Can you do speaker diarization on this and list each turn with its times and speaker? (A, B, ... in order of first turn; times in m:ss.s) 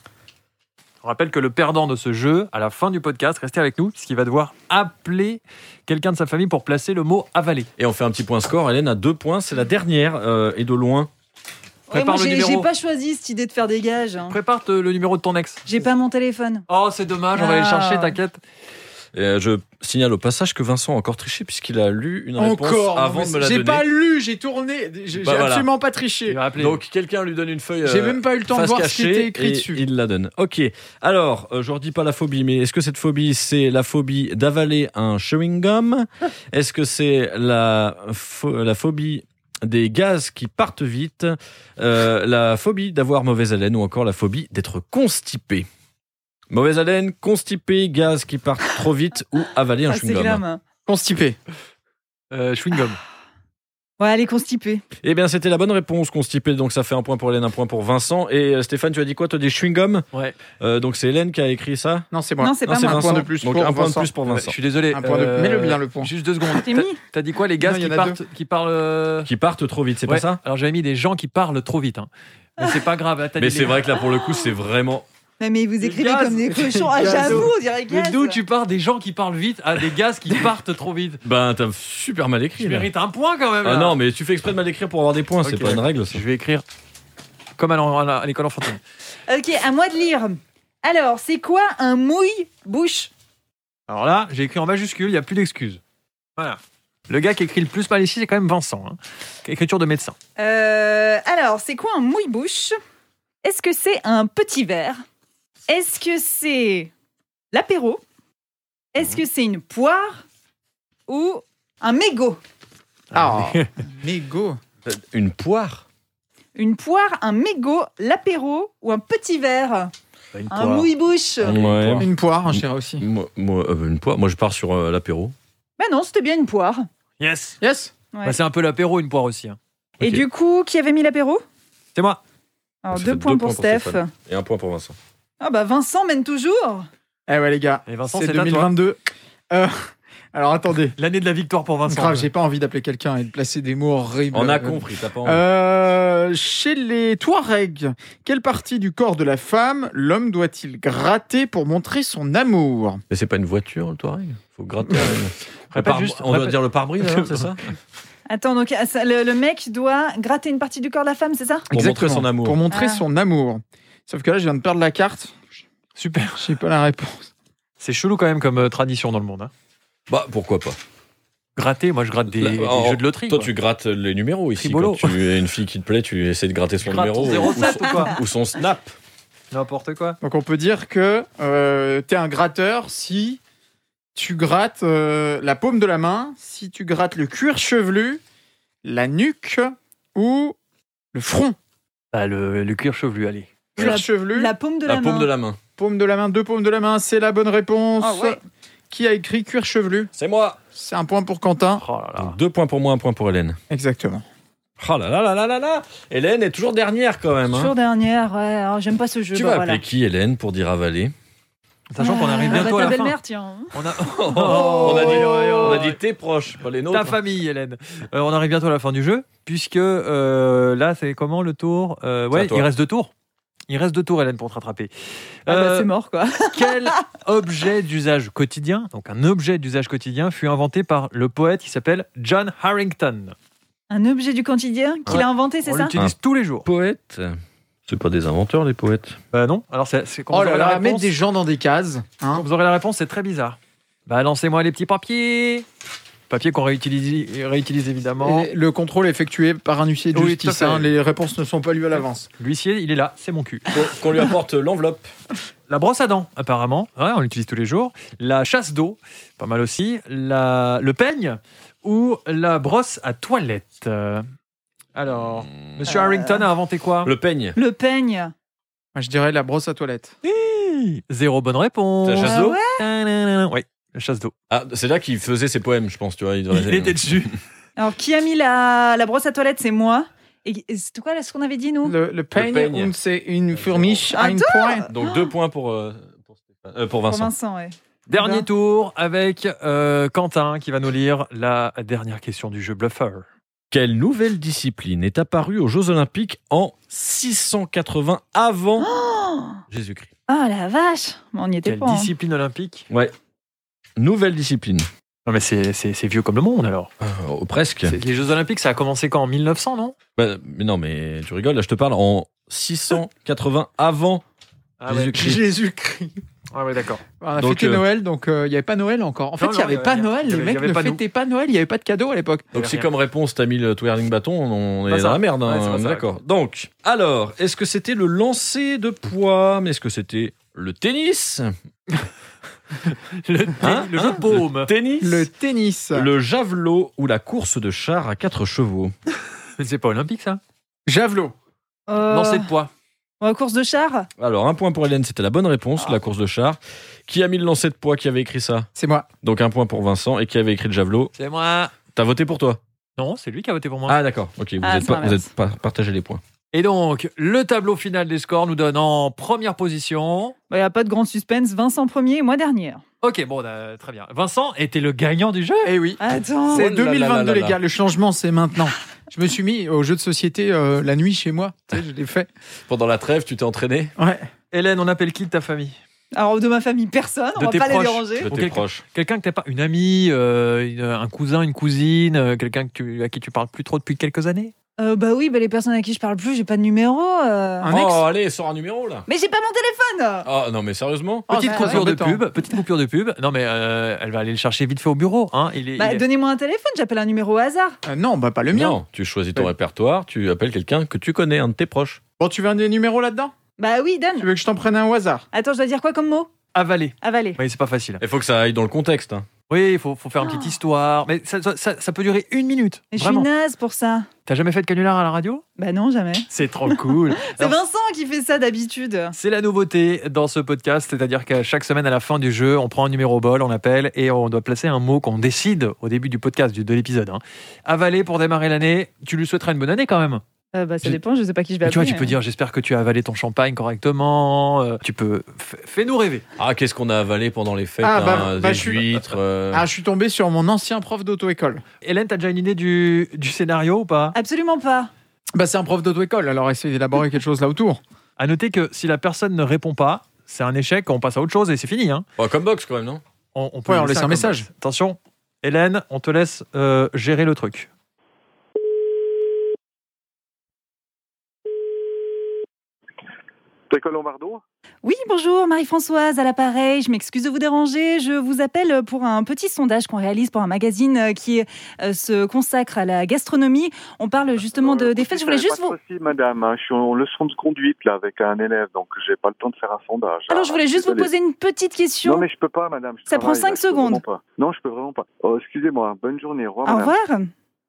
0:01.0-0:07.7 A
0:07.8-0:11.1 B
0:11.9-0:14.4 C
0:11.9-0:12.7 A
0:14.3-0:15.6 A
0:15.7-0:16.7 C
0:16.7-0:18.4 A
0:17.4-0:18.2 C
0:19.1-0:23.9 B
0:22.4-0:26.4 D
0:25.1-0:25.7 B
0:26.3-0:26.8 A
0:26.6-0:45.7 B
0:27.8-0:29.8 D
0:46.5-0:50.4 B
0:49.9-0:50.6 C
0:50.9-0:51.4 D
0:52.3-0:53.0 A
0:54.0-0:54.8 C
0:55.0-1:00.0 B
1:00.6-1:02.1 B
1:02.1-1:04.1 D
1:02.4-1:03.2 C
1:02.6-1:04.6 B
1:04.3-1:09.3 A
1:04.9-1:06.1 D
1:06.6-1:07.0 C
1:07.6-1:08.2 D
1:09.2-1:10.4 B
1:10.1-1:13.8 A
1:13.4-1:15.1 B
1:15.4-1:18.4 C
1:15.8-1:21.2 A
1:16.9-1:17.5 D
1:21.2-1:22.9 B
1:22.6-1:24.0 A
1:23.6-1:26.2 B
1:25.4-1:26.6 A
1:27.6-1:28.8 A
1:29.3-1:33.1 C
1:33.9-1:35.8 A
1:36.4-1:40.2 A
1:40.4-1:42.8 C
1:43.4-1:45.0 C
1:45.7-1:46.9 C
1:47.5-1:48.0 C
1:48.9-1:50.2 C
1:51.1-1:52.4 C
1:53.1-1:53.7 A
1:53.1-1:54.6 D
1:54.8-1:55.8 B
1:56.6-1:59.9 C
2:00.3-2:00.9 A
2:00.5-2:01.6 C
2:01.4-2:02.1 A
2:01.4-2:05.4 B
2:02.0-2:03.0 D
2:05.8-2:06.9 C
2:07.2-2:07.6 A
2:07.6-2:07.9 D
2:08.2-2:09.6 A
2:10.0-2:10.2 B
2:10.0-2:11.4 C
2:12.0-2:12.2 A
2:12.8-2:14.1 C
2:12.9-2:15.0 B
2:15.4-2:16.9 C
2:17.3-2:19.0 D
2:17.9-2:18.7 A
2:19.5-2:21.0 D
2:21.0-2:22.3 A
2:21.9-2:33.0 D
2:24.3-2:25.4 B
2:33.1-2:37.7 B
2:35.7-2:37.5 A
2:38.3-2:41.7 C
2:41.7-2:42.6 B
2:41.7-2:45.4 D
2:42.7-2:43.0 C
2:46.0-2:46.6 A
2:46.4-2:47.3 D
2:47.8-2:49.5 A
2:50.1-2:50.8 B
2:51.6-2:53.5 A
2:52.3-2:59.0 B
2:54.6-2:55.2 A
2:56.8-2:58.2 A
2:59.5-3:00.2 A
3:00.2-3:03.4 D
3:04.2-3:08.2 D
3:08.8-3:10.6 D
3:11.1-3:11.6 D
3:12.1-3:13.5 A
3:13.8-3:14.5 D
3:13.8-3:15.3 C
3:14.9-3:15.6 B
3:15.8-3:18.4 D
3:18.0-3:18.4 C
3:18.9-3:20.1 D
3:20.2-3:20.6 B
3:20.8-3:21.8 D
3:21.8-3:22.4 A
3:22.2-3:23.6 B
3:23.7-3:24.2 D
3:24.8-3:27.7 B
3:27.5-3:29.8 C
3:29.3-3:31.1 B
3:31.9-3:33.2 A
3:32.0-3:33.8 C
3:33.7-3:36.0 A
3:34.0-3:37.2 B
3:34.5-3:34.9 C
3:36.9-3:43.1 A
3:42.3-3:42.7 B
3:43.7-3:44.9 A
3:45.5-3:45.9 A
3:45.5-3:47.0 C
3:46.5-3:53.4 A
3:53.9-3:55.9 C
3:55.1-3:56.7 A
3:56.0-3:59.2 B
3:59.3-4:01.1 A
4:00.3-4:02.4 D
4:02.3-4:05.7 A
4:06.3-4:08.5 A
4:08.2-4:12.3 D
4:10.1-4:10.9 A
4:12.4-4:13.7 A
4:13.7-4:15.1 B
4:15.7-4:24.2 A
4:25.0-4:27.1 A
4:25.9-4:26.4 C
4:27.0-4:27.6 B
4:27.6-4:28.3 C
4:29.0-4:30.2 D
4:30.2-4:34.3 A
4:32.0-4:32.6 B
4:32.2-4:32.8 C
4:34.5-4:37.3 B
4:36.5-4:37.4 A
4:37.8-4:42.0 C
4:41.8-4:44.9 D
4:42.3-4:42.9 B
4:43.5-4:44.0 B
4:44.1-4:45.3 C
4:44.9-4:47.3 B
4:47.1-4:48.5 C
4:48.1-4:53.2 A
4:53.7-4:58.9 B
4:58.8-4:59.6 C
4:59.7-5:00.1 B
5:00.3-5:02.1 C
5:01.7-5:02.9 A
5:04.0-5:04.9 B
5:05.3-5:06.9 A
5:07.0-5:08.0 B
5:07.9-5:10.0 A
5:10.2-5:14.2 B
5:14.8-5:15.2 A
5:14.9-5:15.4 B
5:15.2-5:16.2 D
5:16.5-5:17.0 A
5:17.2-5:22.5 D
5:17.4-5:17.8 B
5:19.4-5:21.0 A
5:22.5-5:22.9 A
5:22.5-5:31.5 B
5:24.9-5:26.1 A
5:32.8-5:34.7 A
5:33.6-5:35.3 B
5:35.0-5:36.1 D
5:35.9-5:38.9 B
5:39.6-5:40.4 A
5:40.9-5:41.3 D
5:41.9-5:42.5 C
5:42.1-5:42.7 A
5:43.2-5:44.1 C
5:44.2-5:48.7 B
5:48.8-5:49.1 D
5:49.2-5:51.1 B
5:51.2-5:51.8 A
5:51.9-5:52.6 B
5:53.0-5:54.0 A
5:53.9-5:56.2 B
5:54.6-5:55.3 C
5:56.5-6:00.4 A
6:00.5-6:02.8 C
6:03.0-6:05.8 A
6:05.6-6:12.3 D
6:06.0-6:06.7 C
6:06.5-6:07.6 B
6:12.7-6:14.0 B
6:14.0-6:14.3 D
6:14.5-6:15.8 A
6:16.2-6:18.3 C
6:17.4-6:24.5 A
6:18.2-6:18.8 B
6:24.8-6:27.7 C
6:27.6-6:28.0 D
6:27.6-6:29.1 B
6:29.1-6:30.3 C
6:30.2-6:31.3 B
6:31.3-6:32.2 D
6:31.3-6:36.0 A
6:31.4-6:31.8 C
6:35.8-6:37.8 C
6:37.9-6:38.8 D
6:38.5-6:42.0 B
6:42.2-6:43.3 D
6:43.6-6:44.3 C
6:44.2-6:45.3 D
6:45.3-6:46.3 C
6:46.5-6:48.0 A
6:47.0-6:47.4 C
6:48.0-6:49.3 B
6:49.5-6:53.3 A
6:50.2-6:50.6 C
6:52.9-6:54.1 C
6:54.3-6:55.4 A
6:55.6-6:59.2 C
6:56.3-6:57.6 A
6:59.2-7:10.2 A
7:10.5-7:12.2 C
7:11.6-7:16.2 A
7:16.4-7:19.7 B
7:17.8-7:19.0 D
7:19.5-7:21.6 D
7:21.8-7:24.2 A
7:24.1-7:24.9 C
7:25.4-7:27.8 D
7:28.2-7:32.0 A
7:32.2-7:33.0 B
7:33.3-7:37.7 A
7:33.7-7:34.5 D
7:43.7-7:44.4 E
7:44.8-7:55.8 C
7:54.4-8:01.1 E
8:00.3-8:02.3 C
8:02.0-8:06.9 E
8:03.1-8:04.0 C
8:06.6-8:07.3 C